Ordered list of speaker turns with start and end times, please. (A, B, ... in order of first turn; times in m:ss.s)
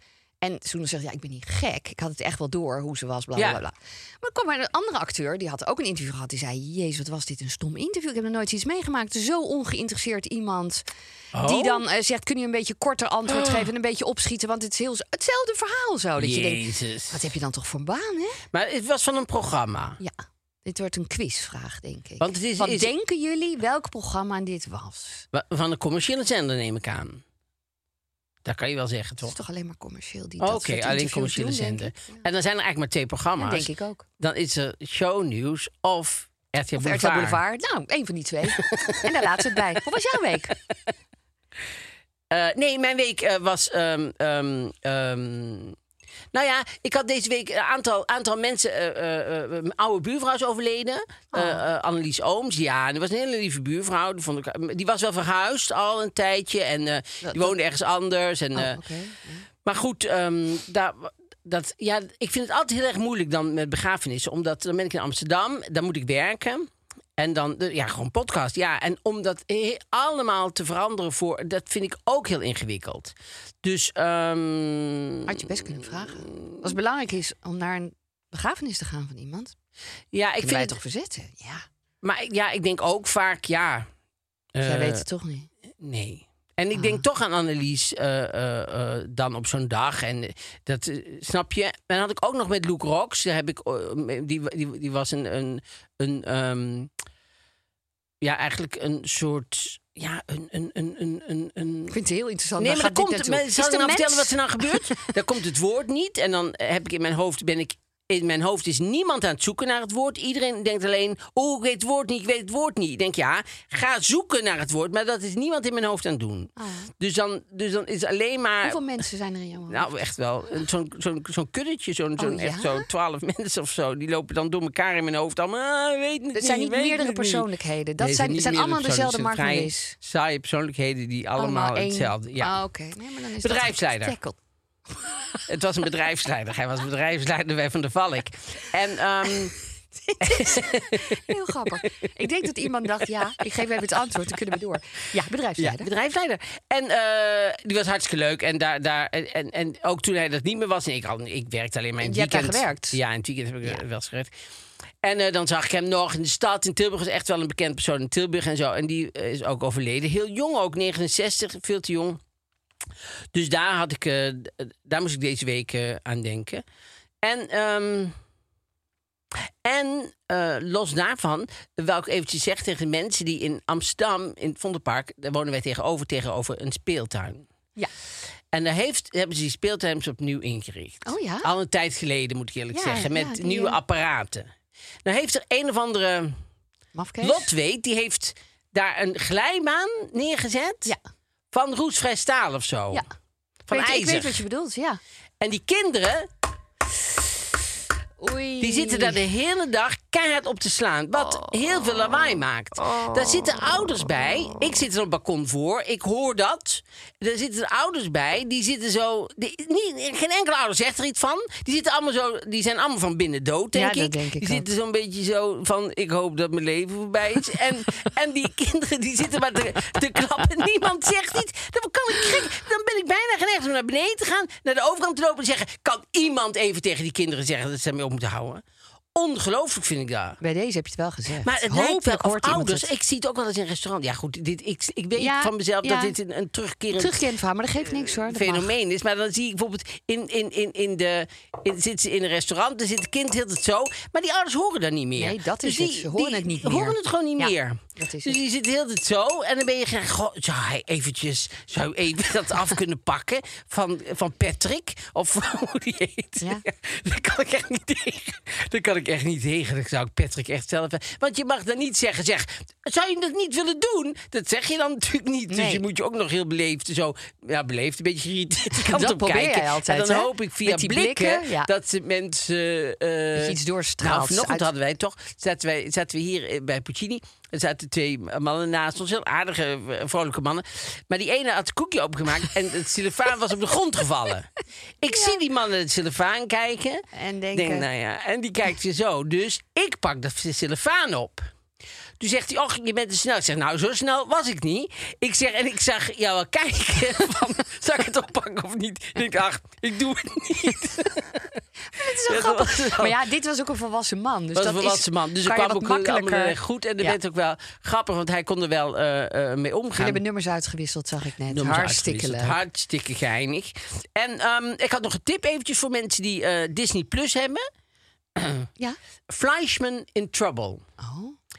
0:00.4-0:10.8 A
0:11.3-0:11.8 B
0:11.4-0:18.4 A
0:13.3-0:13.7 B
0:16.2-0:17.2 B
0:18.5-0:20.0 B
0:20.0-0:25.3 A
0:22.2-0:22.9 B
0:25.3-0:27.2 B
0:28.4-0:29.4 B
0:29.2-0:32.2 A
0:30.4-0:37.4 B
0:33.4-0:34.0 A
0:36.8-0:40.6 A
0:38.6-0:39.0 B
0:42.3-0:45.8 B
0:46.3-0:58.8 B
0:51.3-0:51.6 A
0:57.2-0:57.5 A
0:58.6-0:59.4 A
0:59.6-1:16.8 B
1:15.3-1:19.5 A
1:20.1-1:20.8 B
1:20.4-1:21.6 A
1:22.0-1:23.9 B
1:24.6-1:25.0 B
1:24.6-1:25.5 A
1:25.8-1:36.9 B
1:26.7-1:27.0 A
1:38.2-1:42.0 B
1:41.9-1:45.1 A
1:42.6-1:58.8 B
1:56.6-1:56.9 A
1:58.6-1:59.9 A
1:59.7-2:07.5 B
2:02.2-2:02.8 A
2:06.4-2:10.0 A
2:08.0-2:12.6 B
2:11.4-2:14.4 A
2:13.4-2:14.2 B
2:15.5-2:19.6 B
2:20.0-2:25.9 A
2:20.2-2:21.9 B
2:25.6-2:34.3 B
2:32.0-2:33.0 A
2:35.0-2:42.2 B
2:43.3-2:46.6 B
2:47.2-2:48.2 B
2:49.6-2:57.5 B
2:58.5-3:04.5 B
3:01.1-3:01.5 A
3:02.7-3:03.8 A
3:05.0-3:06.4 B
3:06.9-3:07.5 A
3:07.2-3:10.9 B
3:11.5-3:13.0 B
3:13.7-3:14.4 B
3:13.7-3:15.0 A
3:15.4-3:16.3 B
3:18.2-3:19.2 A
3:18.6-3:48.6 B
3:33.7-3:34.7 A
3:49.2-3:50.4 B
3:50.4-3:52.9 A
3:51.4-3:57.2 B
3:55.2-3:56.1 A
3:57.0-3:58.7 A
3:57.8-4:51.4 B
4:05.2-4:08.4 A
4:25.5-4:25.8 A
4:28.8-4:31.7 A
4:33.4-4:34.7 A
4:47.1-4:47.9 A
4:52.2-5:03.2 B
5:02.0-5:07.2 A
5:04.6-5:10.2 B
5:10.0-5:12.6 A
5:11.5-5:17.7 B
5:18.4-5:18.7 B
5:19.3-5:20.8 B
5:21.0-5:21.4 A